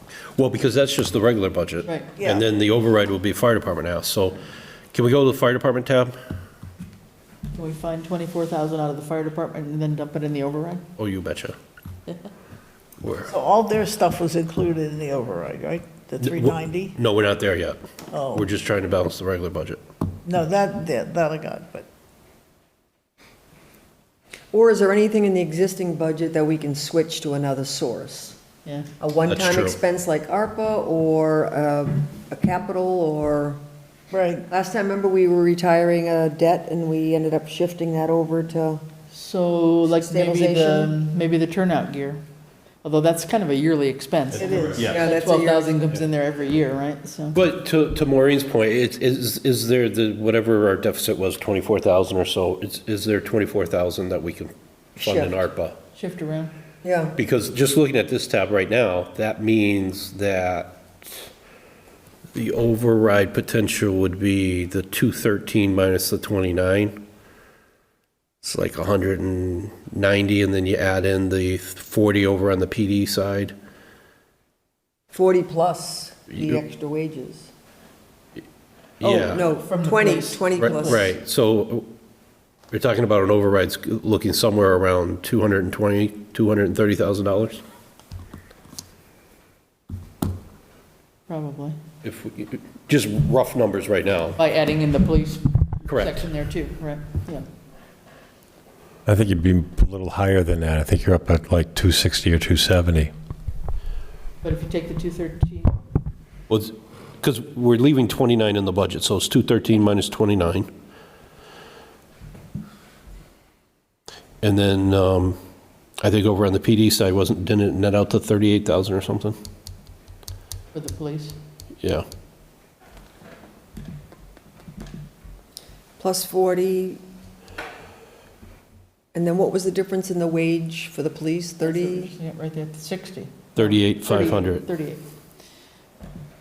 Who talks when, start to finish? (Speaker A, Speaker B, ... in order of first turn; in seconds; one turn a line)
Speaker A: 0.4-4.4
Speaker B: 1.9-2.1
Speaker C: 2.2-2.5
Speaker A: 4.9-6.2
Speaker B: 7.5-10.8
Speaker A: 11.0-11.6
Speaker A: 13.0-13.3
Speaker C: 13.3-16.9
Speaker A: 16.2-17.8
Speaker C: 18.1-18.5
Speaker A: 18.3-19.8
Speaker C: 20.2-21.9
Speaker D: 24.5-28.4
Speaker D: 29.0-33.6
Speaker A: 29.3-29.8
Speaker C: 34.1-34.5
Speaker D: 34.5-38.8
Speaker B: 39.1-42.2
Speaker D: 40.0-40.9
Speaker B: 42.8-47.4
Speaker C: 44.4-45.0
Speaker D: 44.8-45.8
Speaker A: 47.3-55.8
Speaker D: 55.0-55.4
Speaker B: 56.0-56.5
Speaker D: 56.8-57.2
Speaker A: 57.2-61.2
Speaker A: 62.3-67.0
Speaker A: 68.4-73.5
Speaker D: 75.1-77.5
Speaker A: 76.3-76.6
Speaker A: 79.0-79.5
Speaker B: 79.0-81.1
Speaker D: 79.2-81.1
Speaker A: 80.6-81.9
Speaker A: 82.7-87.6
Speaker B: 91.3-91.8
Speaker A: 92.0-94.4
Speaker B: 94.4-97.5
Speaker A: 95.9-96.2
Speaker E: 99.1-103.1
Speaker B: 104.4-105.8
Speaker A: 106.5-110.7
Speaker A: 114.4-115.4
Speaker A: 116.0-119.3
Speaker B: 120.7-121.3
Speaker D: 126.0-127.0
Speaker D: 129.1-132.1
Speaker B: 131.6-135.1
Speaker A: 133.6-134.7